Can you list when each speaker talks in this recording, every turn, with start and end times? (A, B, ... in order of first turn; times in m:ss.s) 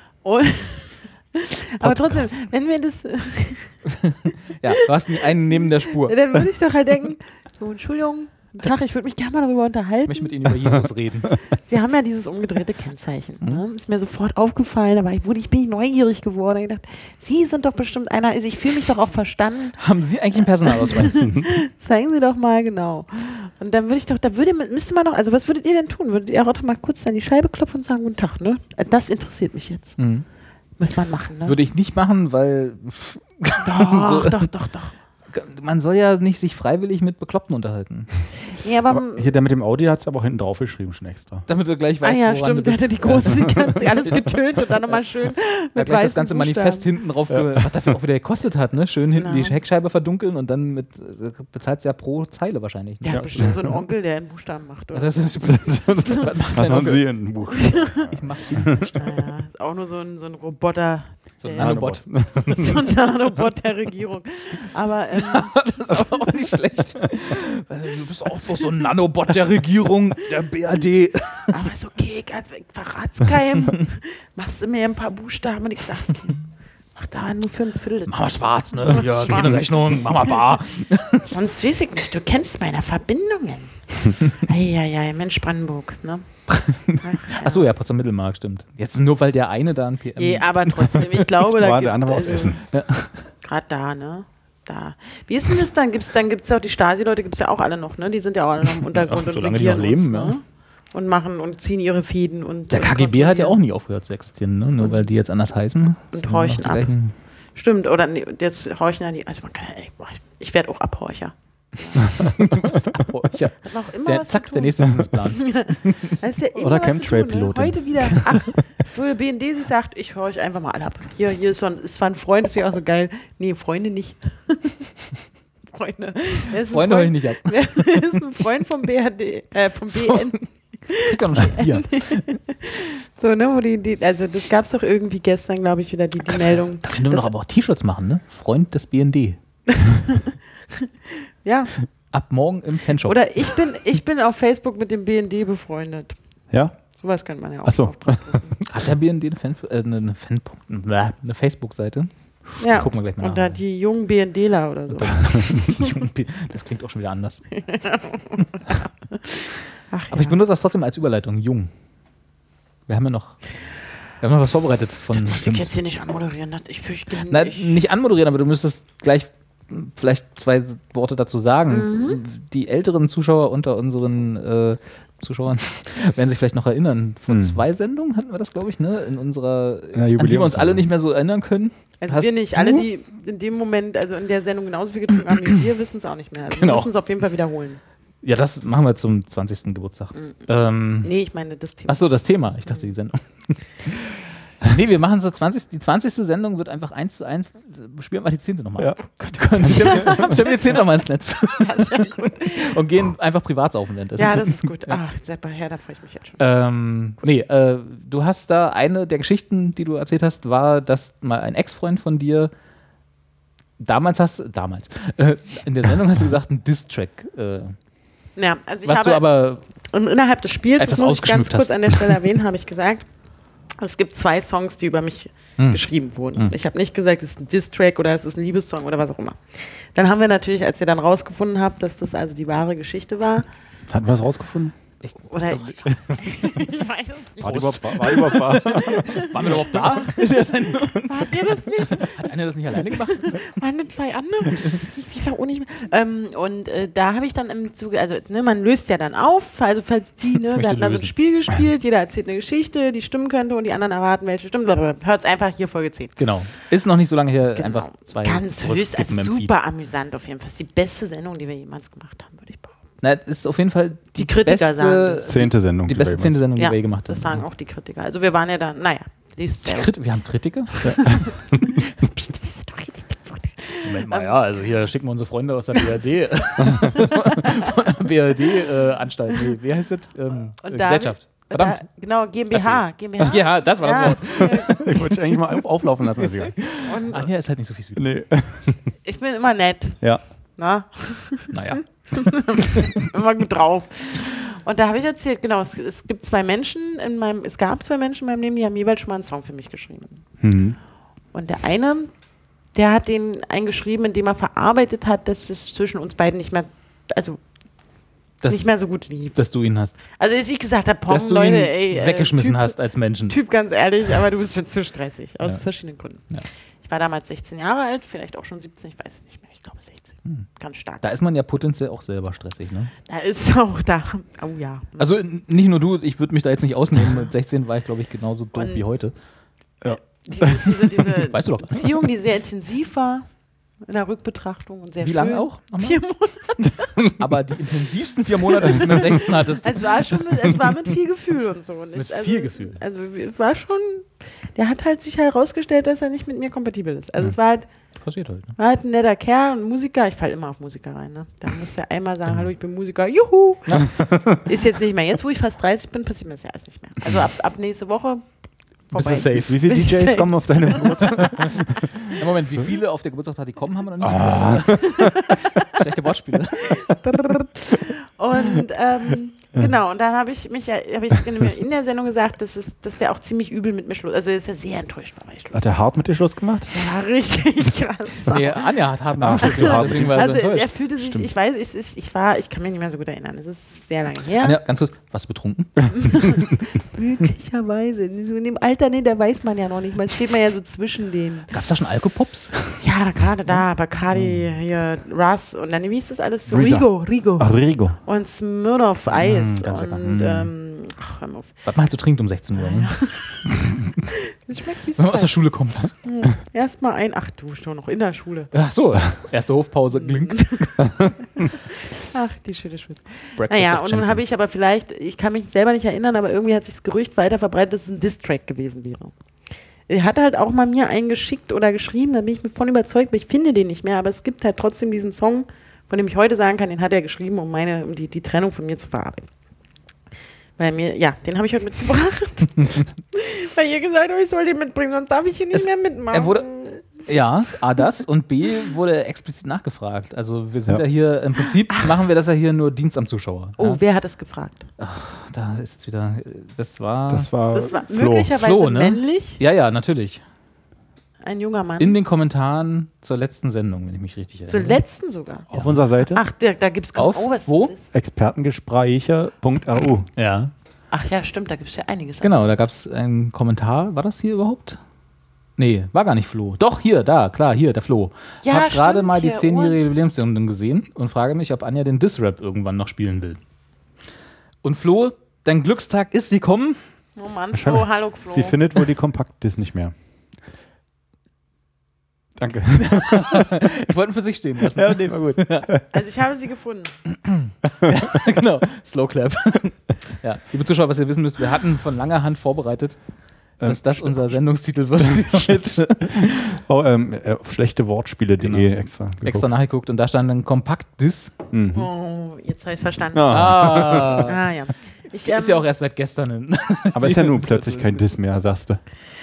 0:00.2-0:03.8 A
0:01.8-0:02.2 B
0:03.9-0:06.3 C
0:04.7-0:05.3 A
0:06.0-0:10.3 A
0:10.1-0:11.3 C
0:11.4-0:19.8 A
0:19.8-0:21.3 C
0:20.6-0:30.0 A
0:30.0-0:30.2 C
0:30.8-0:31.6 A
0:31.4-0:34.5 C
0:33.6-0:34.9 A
0:35.3-0:38.1 C
0:38.4-0:39.3 A
0:38.9-0:41.4 B
0:41.5-0:44.3 C
0:42.0-0:46.9 A
0:45.8-0:53.6 C
0:47.3-0:47.8 B
0:49.2-0:49.6 A
0:53.0-0:55.3 A
0:53.2-0:53.7 B
0:54.9-0:57.2 C
0:55.4-0:58.8 B
0:57.5-0:58.1 A
0:58.1-0:59.2 C
0:58.8-1:06.3 A
1:01.4-1:02.1 C
1:01.6-1:02.8 B
1:05.2-1:11.5 C
1:11.5-1:16.4 A
1:16.9-1:18.3 A
1:18.0-1:21.3 C
1:18.9-1:19.5 A
1:21.2-1:26.2 A
1:26.5-1:31.3 C
1:27.0-1:27.7 A
1:30.2-1:32.6 A
1:31.5-1:32.6 B
1:32.7-1:33.3 C
1:33.4-1:43.6 A
1:38.9-1:40.3 C
1:42.7-1:47.1 C
1:44.8-1:45.0 A
1:46.1-1:46.9 A
1:47.5-1:52.0 A
1:52.2-1:56.2 C
1:53.6-2:04.8 A
1:56.5-1:58.5 B
2:05.7-2:17.3 A
2:06.5-2:08.2 C
2:10.0-2:10.4 C
2:10.9-2:12.3 C
2:16.3-2:19.4 C
2:19.7-2:20.2 A
2:21.4-2:21.7 A
2:22.1-2:23.2 C
2:23.0-2:26.2 A
2:26.5-2:26.8 B
2:27.0-2:28.6 A
2:27.6-2:28.4 B
2:28.7-2:33.6 C
2:32.6-2:35.9 A
2:35.0-2:37.4 C
2:37.5-2:40.4 A
2:40.1-2:41.7 C
2:42.9-2:43.5 C
2:44.2-2:45.6 C
2:45.2-2:47.8 A
2:47.3-3:02.8 C
2:51.7-2:52.2 A
2:57.3-2:57.6 B
2:59.9-3:00.8 B
3:02.0-3:07.8 A
3:06.6-3:06.9 C
3:08.2-3:11.1 C
3:11.0-3:12.0 A
3:11.9-3:25.0 C
3:19.2-3:20.7 A
3:19.6-3:20.0 B
3:21.5-3:22.8 A
3:24.2-3:26.4 A
3:26.4-3:32.5 C
3:33.8-3:37.8 C
3:38.4-3:43.0 A
3:38.8-3:39.6 C
3:40.8-3:42.2 C
3:43.8-3:53.4 A
3:53.9-3:54.7 B
3:55.0-3:56.1 C
3:55.3-4:16.2 A
3:57.4-3:59.5 B
3:57.4-4:03.4 C
4:10.5-4:11.1 C
4:16.2-4:19.5 C
4:17.6-4:22.8 A
4:23.0-4:27.4 C
4:24.2-4:25.3 A
4:25.2-4:26.4 B
4:26.6-4:29.9 A
4:29.6-4:31.1 C
4:30.8-4:34.4 A
4:30.8-4:31.6 B
4:33.8-4:41.8 C
4:37.2-4:37.7 A
4:40.6-4:44.7 A
4:42.5-4:45.4 C
4:44.5-4:46.6 B
4:46.6-4:48.1 C
4:46.8-4:47.3 A
4:48.0-4:48.8 B
4:49.0-4:50.0 A
4:50.6-5:00.2 A
4:51.5-4:51.9 C
5:00.4-5:00.8 B
5:01.3-5:02.1 A
5:02.7-5:07.4 A
5:08.4-5:08.7 C
5:08.5-5:09.4 A
5:09.3-5:10.0 C
5:10.1-5:16.2 A
5:11.1-5:13.4 C
5:16.8-5:21.0 A
5:21.0-5:22.9 C
5:23.0-5:25.2 A
5:25.0-5:29.1 C
5:28.5-5:28.8 A
5:29.8-5:30.6 B
5:30.2-5:33.3 A
5:31.0-5:32.1 C
5:33.8-5:37.0 A
5:35.0-5:36.0 C
5:37.2-5:40.5 C
5:38.4-5:47.7 A
5:41.9-5:42.8 C
5:48.0-5:48.5 C
5:48.6-5:58.3 A
5:53.8-5:54.1 B
5:58.9-6:01.6 A
5:58.9-5:59.7 C
5:59.4-6:01.9 B
6:01.0-6:01.5 C
6:02.0-6:06.9 C
6:04.0-6:04.9 B
6:04.8-6:05.7 A
6:06.6-6:15.6 A
6:15.5-6:16.7 B
6:16.7-6:18.8 A
6:18.2-6:20.7 C
6:19.2-6:20.3 B
6:19.4-6:24.6 A
6:21.0-6:21.3 B
6:24.4-6:26.4 C
6:26.0-6:31.5 A
6:31.5-6:32.8 C
6:32.8-6:41.5 A
6:36.5-6:38.0 B
6:39.2-6:40.5 C
6:41.6-6:43.1 C
6:42.6-6:43.4 A
6:44.1-6:45.4 A
6:45.0-6:46.0 C
6:46.0-6:48.5 A
6:48.5-6:50.8 C
6:50.0-6:59.1 A
6:53.4-6:54.3 C
6:59.9-7:09.3 A
7:10.6-7:16.8 A
7:15.5-7:23.8 C
7:23.6-7:24.6 A
7:24.8-7:27.3 C
7:27.1-7:28.3 B
7:27.5-7:29.4 A
7:28.3-7:30.2 C
7:31.2-7:32.0 A
7:31.8-7:34.8 C
7:34.5-7:35.5 A
7:35.5-7:36.2 B
7:36.1-7:37.9 A
7:37.0-7:37.7 C
7:37.9-7:40.1 B
7:40.2-7:40.5 C
7:40.9-7:42.4 A
7:42.2-7:44.8 C
7:45.6-7:53.4 C
7:48.4-7:49.8 A
7:54.6-7:56.8 C
7:57.2-7:58.6 A
7:57.5-7:59.9 B
8:02.4-8:03.6 B
8:02.8-8:05.7 C
8:04.7-8:05.8 B
8:05.9-8:07.0 A
8:07.2-8:13.0 C
8:13.6-8:14.4 B
8:13.6-8:16.6 C
8:15.0-8:19.5 B
8:18.4-8:21.3 C
8:21.5-8:21.9 B
8:21.7-8:23.6 A
8:23.1-8:24.3 B
8:23.3-8:24.4 C
8:24.2-8:25.6 A
8:25.3-8:28.1 C
8:26.9-8:28.8 B